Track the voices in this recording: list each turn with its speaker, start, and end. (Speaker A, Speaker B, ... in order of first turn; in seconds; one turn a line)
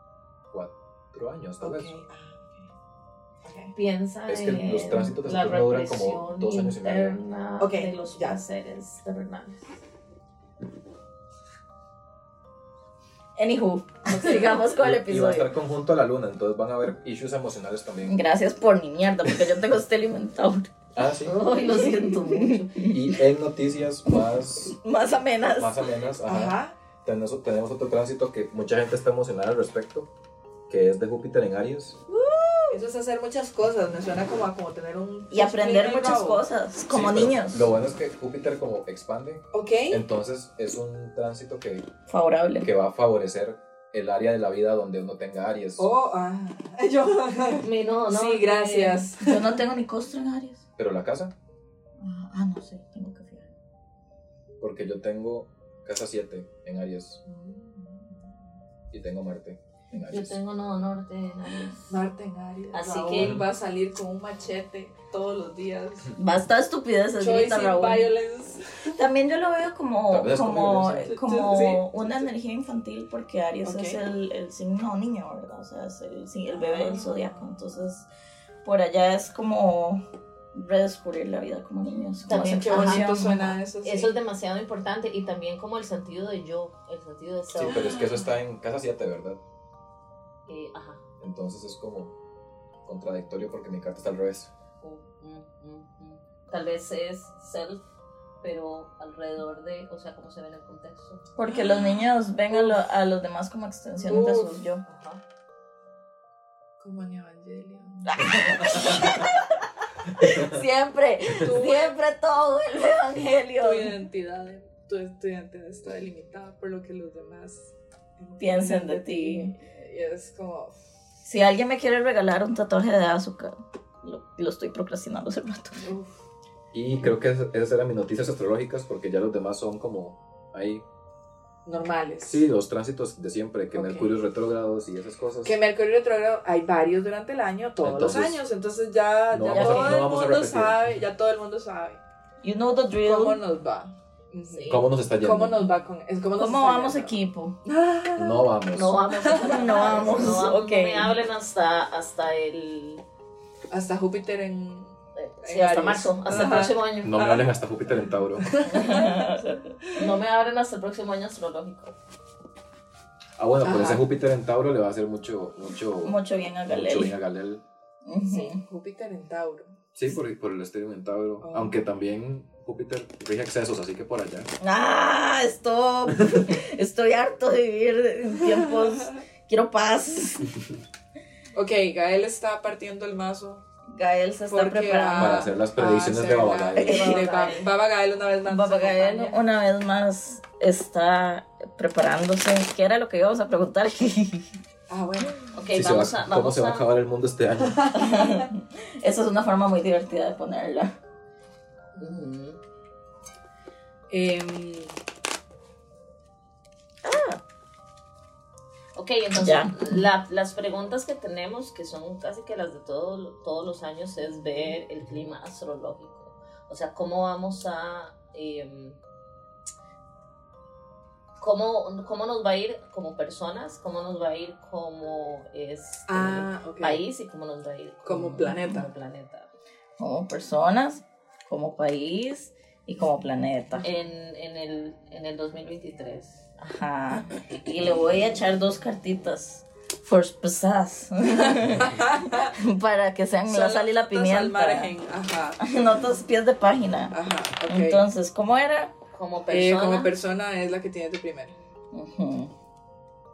Speaker A: 0.5-1.9
Speaker B: 1.6-2.7
Speaker B: 3.4-3.7
Speaker C: 3.7-9.6
Speaker A: 4.3-7.2
Speaker B: 7.6-8.4
Speaker D: 13.4-15.5
Speaker A: 14.8-18.2
Speaker D: 18.0-20.7
Speaker A: 20.9-21.3
Speaker C: 21.2-22.7
Speaker D: 21.6-23.2
Speaker A: 22.8-24.8
Speaker D: 24.1-25.9
Speaker A: 25.5-30.1
Speaker B: 26.2-26.7
Speaker A: 30.7-32.0
Speaker D: 32.1-32.8
Speaker B: 32.7-36.4
Speaker D: 35.3-37.7
Speaker A: 36.9-41.9
Speaker B: 39.5-40.0
Speaker D: 42.1-42.7
Speaker A: 42.6-45.9
Speaker B: 45.8-49.5
Speaker C: 47.6-49.1
Speaker D: 49.2-50.6
Speaker A: 50.8-51.3
Speaker D: 52.0-53.5
Speaker A: 54.6-57.2
Speaker B: 57.2-58.2
Speaker A: 58.9-60.4
Speaker C: 60.1-62.0
Speaker B: 61.9-66.1
Speaker C: 62.7-63.4
Speaker A: 63.2-63.5
Speaker D: 66.2-68.1
Speaker B: 67.2-69.0
Speaker D: 69.0-78.1
Speaker A: 70.1-71.1
Speaker B: 71.0-72.3
Speaker B: 73.6-74.0
Speaker B: 76.5-77.3
Speaker D: 78.6-83.6
Speaker C: 82.3-83.1
Speaker B: 82.4-84.1
Speaker C: 83.8-88.0
Speaker A: 87.5-89.4
Speaker B: 87.6-88.2
Speaker C: 90.5-91.0
Speaker A: 91.2-92.1
Speaker A: 92.8-94.5
Speaker C: 94.8-97.8
Speaker C: 98.4-101.2
Speaker D: 101.3-104.8
Speaker B: 101.5-102.8
Speaker B: 104.1-104.6
Speaker C: 104.8-105.2
Speaker B: 106.8-108.3
Speaker D: 108.0-109.7
Speaker D: 110.2-114.0
Speaker A: 110.2-110.6
Speaker B: 111.4-112.0
Speaker B: 113.6-120.7
Speaker D: 118.4-119.5
Speaker D: 121.2-125.9
Speaker B: 125.8-126.2
Speaker A: 126.7-130.8
Speaker B: 131.7-132.4
Speaker A: 132.2-135.6
Speaker B: 133.7-134.1
Speaker B: 135.4-142.0
Speaker A: 137.8-138.4
Speaker A: 139.3-140.8
Speaker D: 139.5-140.1
Speaker D: 142.4-143.4
Speaker B: 143.0-147.1
Speaker C: 144.4-144.8
Speaker A: 144.7-145.6
Speaker D: 146.4-147.6
Speaker B: 147.6-148.6
Speaker A: 148.2-149.2
Speaker C: 148.7-153.0
Speaker B: 149.1-150.2
Speaker D: 149.4-151.1
Speaker B: 153.7-157.4
Speaker C: 155.2-157.4
Speaker A: 156.3-158.7
Speaker B: 158.4-160.1
Speaker D: 158.7-159.7
Speaker C: 159.9-161.9
Speaker A: 163.4-166.2
Speaker B: 163.6-164.0
Speaker D: 166.0-167.2
Speaker A: 166.7-167.6
Speaker D: 168.1-168.6
Speaker B: 168.2-169.7
Speaker A: 169.9-174.5
Speaker B: 171.4-171.8
Speaker D: 174.6-180.5
Speaker B: 181.5-183.6
Speaker D: 183.9-185.5
Speaker B: 184.5-189.4
Speaker A: 185.2-187.0
Speaker D: 186.8-187.4
Speaker C: 186.9-187.7
Speaker D: 188.4-194.5
Speaker B: 194.9-195.4
Speaker C: 195.5-196.9
Speaker A: 195.7-198.1
Speaker B: 197.8-198.3
Speaker D: 197.9-200.9
Speaker C: 201.9-202.6
Speaker B: 204.1-204.9
Speaker D: 207.0-207.4
Speaker C: 208.9-219.0
Speaker D: 209.3-209.9
Speaker C: 221.4-229.5
Speaker B: 226.1-227.0
Speaker B: 228.0-228.9
Speaker D: 230.0-233.9
Speaker C: 233.8-236.4
Speaker D: 236.6-244.9
Speaker B: 241.8-242.5
Speaker B: 243.4-245.6
Speaker D: 245.6-247.1
Speaker B: 247.1-248.1
Speaker D: 247.7-248.9
Speaker C: 249.1-250.1
Speaker B: 249.5-251.5
Speaker D: 251.9-252.5